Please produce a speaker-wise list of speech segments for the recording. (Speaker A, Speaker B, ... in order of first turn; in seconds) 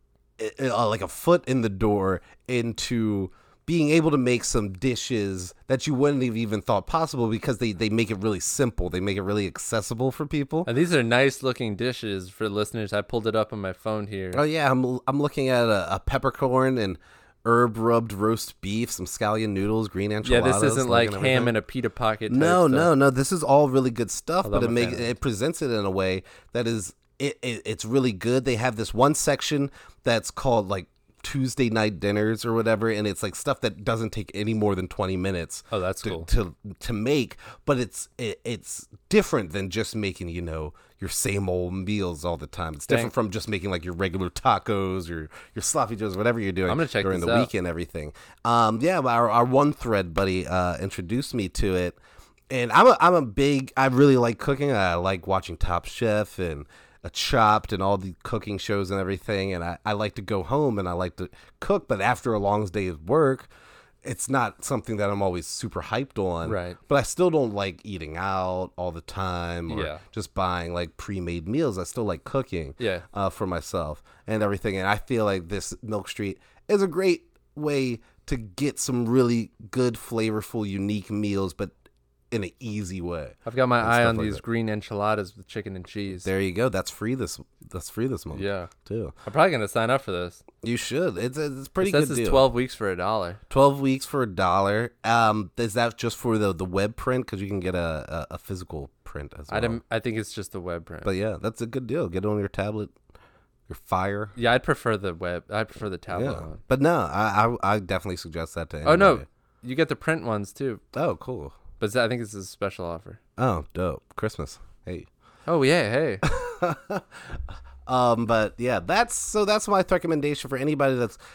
Speaker A: 0.4-10.7, 14.3-21.5, 22.3-52.0, 52.5-63.5, 64.0-81.7, 82.3-84.4, 86.2-89.1, 90.6-92.5, 93.5-99.8, 101.0-102.9, 103.7-104.3, 106.1-109.2, 110.9-111.5, 113.4-115.1, 116.2-121.2
Speaker B: 10.7-14.4, 20.2-22.9, 24.4-25.1, 35.7-36.3, 42.9-43.1, 46.7-47.5, 66.4-66.8, 69.7-70.0, 72.8-73.0, 83.5-86.3, 88.3-88.7, 89.2-90.4, 91.8-93.4, 99.5-101.1, 104.3-106.6, 108.8-110.8, 111.8-113.2, 115.5-116.2